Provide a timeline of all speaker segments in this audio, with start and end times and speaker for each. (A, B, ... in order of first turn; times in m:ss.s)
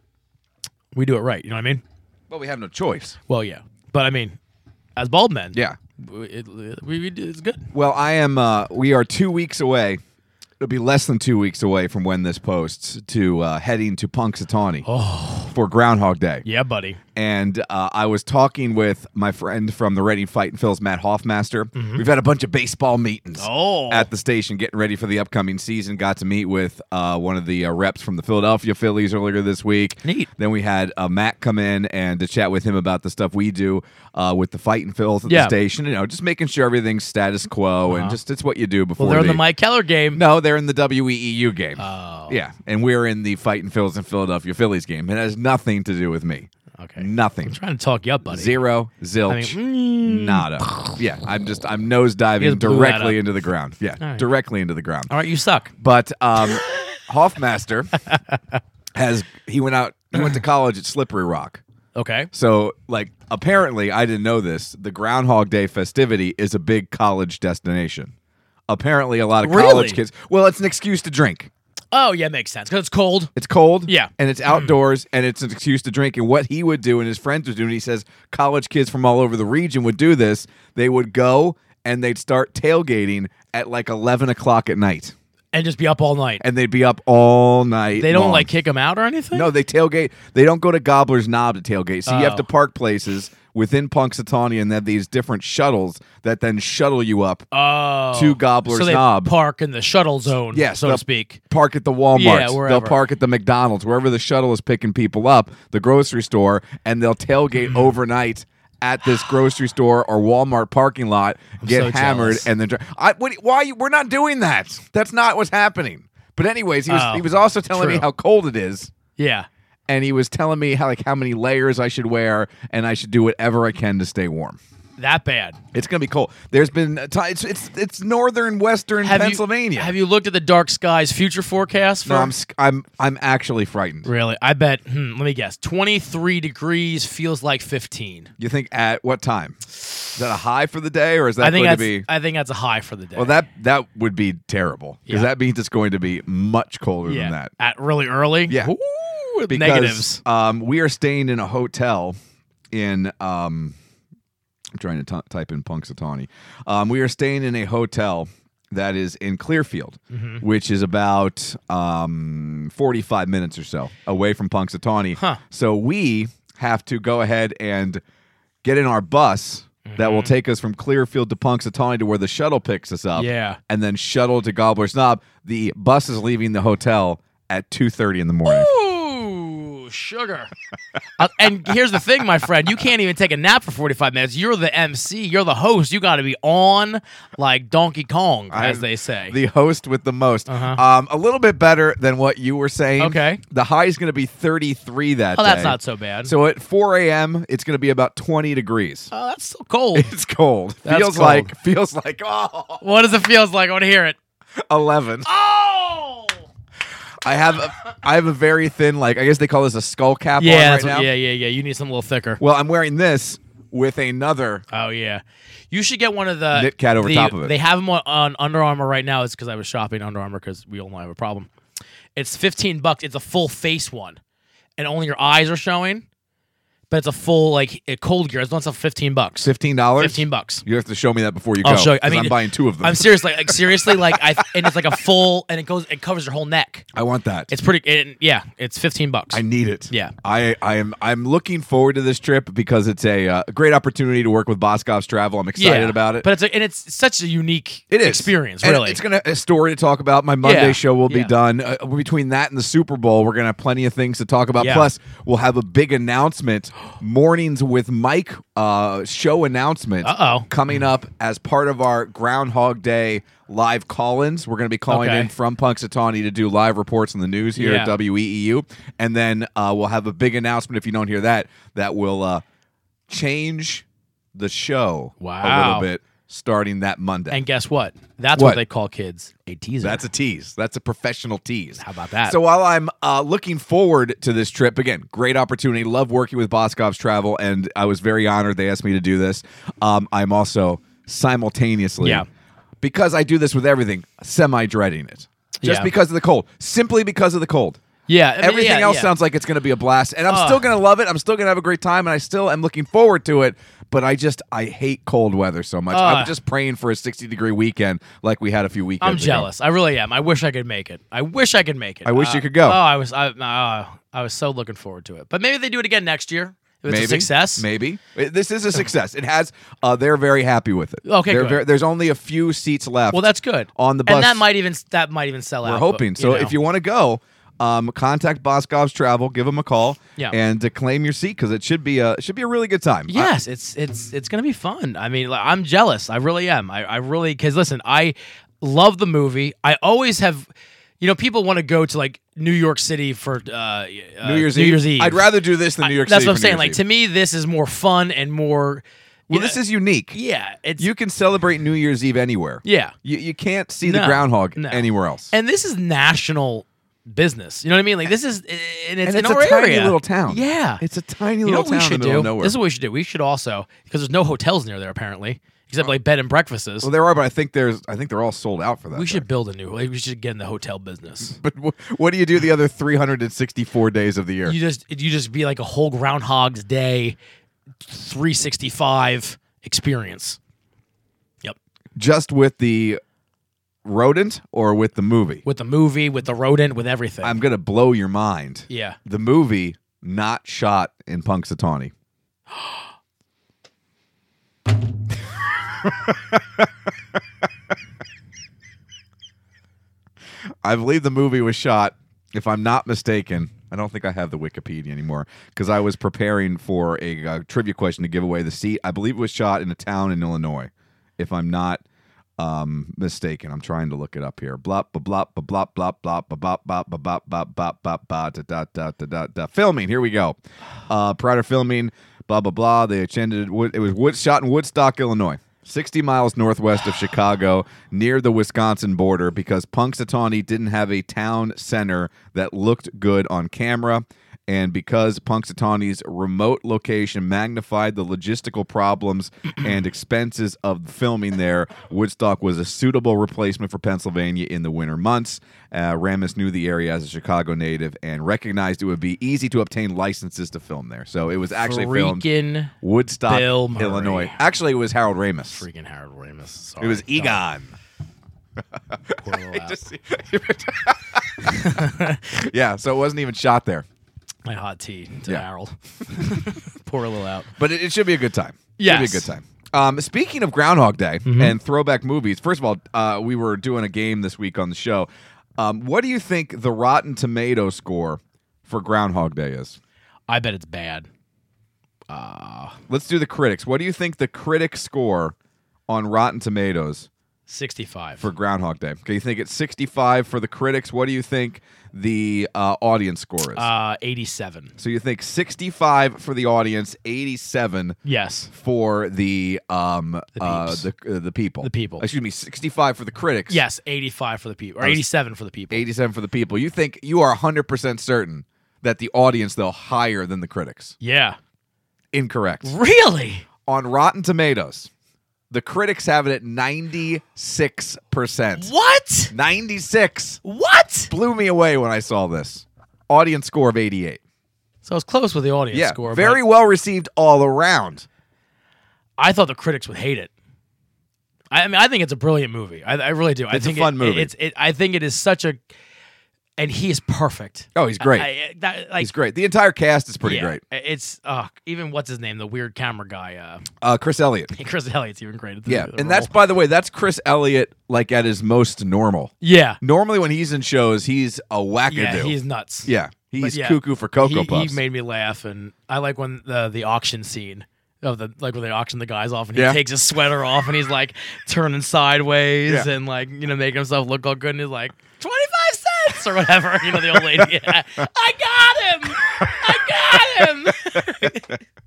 0:01.0-0:01.8 A
0:02.3-0:03.2 B
0:03.3-0:04.4 A
0:05.0-0:07.6 A
0:07.7-0:10.0 B
0:10.6-0:14.9 B
0:14.9-0:15.5 A
0:15.5-0:16.4 B
0:16.4-0:17.0 A
0:17.2-0:39.4 B
0:21.8-0:22.0 A
0:23.4-0:24.1 A
0:30.0-0:30.3 A
0:35.3-0:35.6 A
0:37.9-0:38.2 A
0:39.0-0:40.2 A
0:40.1-0:47.6 B
0:41.8-0:42.4 A
0:46.8-0:48.6 A
0:48.3-0:55.1 B
0:49.3-0:51.0 A
0:52.4-0:53.2 A
0:54.0-0:54.3 A
0:55.1-0:55.7 A
0:55.8-0:58.0 B
0:59.0-1:01.6 B
1:02.0-1:02.3 A
1:02.3-1:08.1 B
1:08.7-1:11.5 B
1:09.4-1:10.0 A
1:11.9-1:13.3 A
1:13.4-1:25.2 B
1:13.9-1:14.7 A
1:25.5-1:26.4 A
1:26.4-1:28.5 B
1:28.0-1:29.5 A
1:29.3-1:37.5 B
1:32.1-1:32.5 A
1:37.5-1:41.4 A
1:38.1-1:39.3 B
1:40.5-1:58.9 B
1:42.1-1:43.0 A
1:51.6-1:52.5 A
1:56.9-1:58.1 A
1:59.2-1:59.5 A
1:59.9-2:04.6 B
2:05.0-2:05.6 A
2:05.7-2:10.0 B
2:09.0-2:12.3 A
2:12.0-2:14.1 B
2:14.0-2:18.3 A
2:18.4-2:22.1 B
2:21.4-2:23.4 A
2:23.2-2:27.5 B
2:27.1-2:30.2 A
2:28.5-2:28.7 B
2:29.5-2:32.2 B
2:32.7-2:33.8 B
2:34.8-2:48.0 B
2:40.1-2:40.4 A
2:45.2-2:45.4 A
2:48.6-2:58.7 B
2:49.9-2:50.3 A
2:53.2-2:53.6 A
2:58.5-3:00.5 A
3:01.2-3:09.4 A
3:08.5-3:19.1 B
3:10.5-3:10.8 A
3:13.0-3:13.4 A
3:15.4-3:16.3 A
3:19.1-3:20.1 A
3:19.9-3:22.8 B
3:20.8-3:21.5 A
3:22.8-3:24.2 A
3:24.7-3:25.3 B
3:25.3-3:26.4 A
3:27.2-3:31.1 B
3:30.4-3:32.4 A
3:32.4-3:34.6 B
3:34.7-3:41.5 A
3:36.5-3:37.6 B
3:42.2-3:44.2 A
3:44.8-3:46.0 A
3:46.9-3:50.6 A
3:49.4-3:54.7 B
3:51.6-3:56.8 A
3:56.9-3:57.5 B
3:57.5-4:00.1 A
3:59.3-4:06.3 B
4:05.6-4:09.0 A
4:07.9-4:32.4 B
4:10.4-4:11.3 A
4:14.6-4:14.9 A
4:20.0-4:20.5 A
4:24.9-4:25.3 A
4:27.6-4:28.0 A
4:33.1-4:37.4 B
4:35.2-4:35.9 A
4:37.3-4:40.0 A
4:38.3-4:38.6 B
4:39.8-4:52.2 B
4:41.8-4:42.4 A
4:52.0-4:52.3 A
4:52.8-4:57.8 B
4:55.6-4:55.9 A
4:58.1-4:59.1 A
4:58.4-5:09.5 B
5:00.3-5:00.6 A
5:05.9-5:06.3 A
5:09.0-5:17.7 A
5:12.0-5:12.8 B
5:16.9-5:23.2 B
5:21.1-5:21.6 A
5:23.1-5:26.6 A
5:23.8-5:24.4 B
5:25.6-5:33.3 B
5:33.1-5:45.2 A
5:44.2-5:46.8 B
5:45.8-5:49.6 A
5:49.3-5:50.2 B
5:50.1-5:50.9 A
5:50.8-5:55.3 B
5:52.6-5:53.0 A
5:53.8-6:00.8 A
5:59.0-6:02.6 B
6:01.4-6:06.9 A
6:06.8-6:09.2 B
6:08.9-6:11.4 A
6:11.3-6:14.6 B
6:14.4-6:17.2 A
6:17.8-6:20.4 A
6:22.0-6:23.0 B
6:23.8-6:25.4 B
6:25.4-6:27.4 A
6:27.2-6:31.9 B
6:28.7-6:29.0 A
6:35.8-6:36.7 B
6:40.6-6:51.8 B
6:52.4-7:32.2 B
7:31.6-7:32.7 A
7:32.8-7:35.7 B
7:33.3-7:34.4 A
7:35.5-7:37.4 A
7:36.8-7:37.8 B
7:38.9-7:43.9 B
7:39.2-7:39.8 A
7:41.5-7:42.2 A
7:44.5-7:47.5 A
7:47.6-7:59.8 B
7:48.8-7:49.3 A
7:51.3-7:51.6 A
8:00.3-8:01.1 A
8:02.1-8:02.8 A
8:02.9-8:05.4 B
8:05.9-8:07.1 B
8:07.5-8:08.3 A
8:08.2-8:13.7 B
8:13.6-8:14.7 A
8:14.8-8:18.0 B
8:18.0-8:18.5 A
8:18.5-8:23.6 B
8:20.4-8:20.8 A
8:21.6-8:22.1 A
8:23.5-8:25.8 A
8:25.7-8:31.0 B
8:31.0-8:31.4 A
8:32.1-8:32.7 B
8:32.6-8:33.5 A
8:33.7-8:34.9 B
8:35.5-8:38.7 B
8:38.6-8:39.3 A
8:39.3-8:40.4 B
8:40.4-8:41.1 A
8:41.1-8:44.2 B
8:44.8-8:46.4 A
8:45.7-8:48.1 B
8:49.2-8:50.3 A
8:51.5-8:55.6 A
8:53.5-8:54.3 B
8:56.6-8:59.1 A
8:57.8-8:58.3 B
8:59.0-9:00.6 B
9:00.2-9:03.6 A
9:03.8-9:04.5 B
9:04.5-9:06.3 A
9:05.7-9:14.8 B
9:09.4-9:09.8 A
9:11.9-9:31.6 A
9:19.6-9:19.8 B
9:26.9-9:27.6 B
9:29.4-9:31.6 B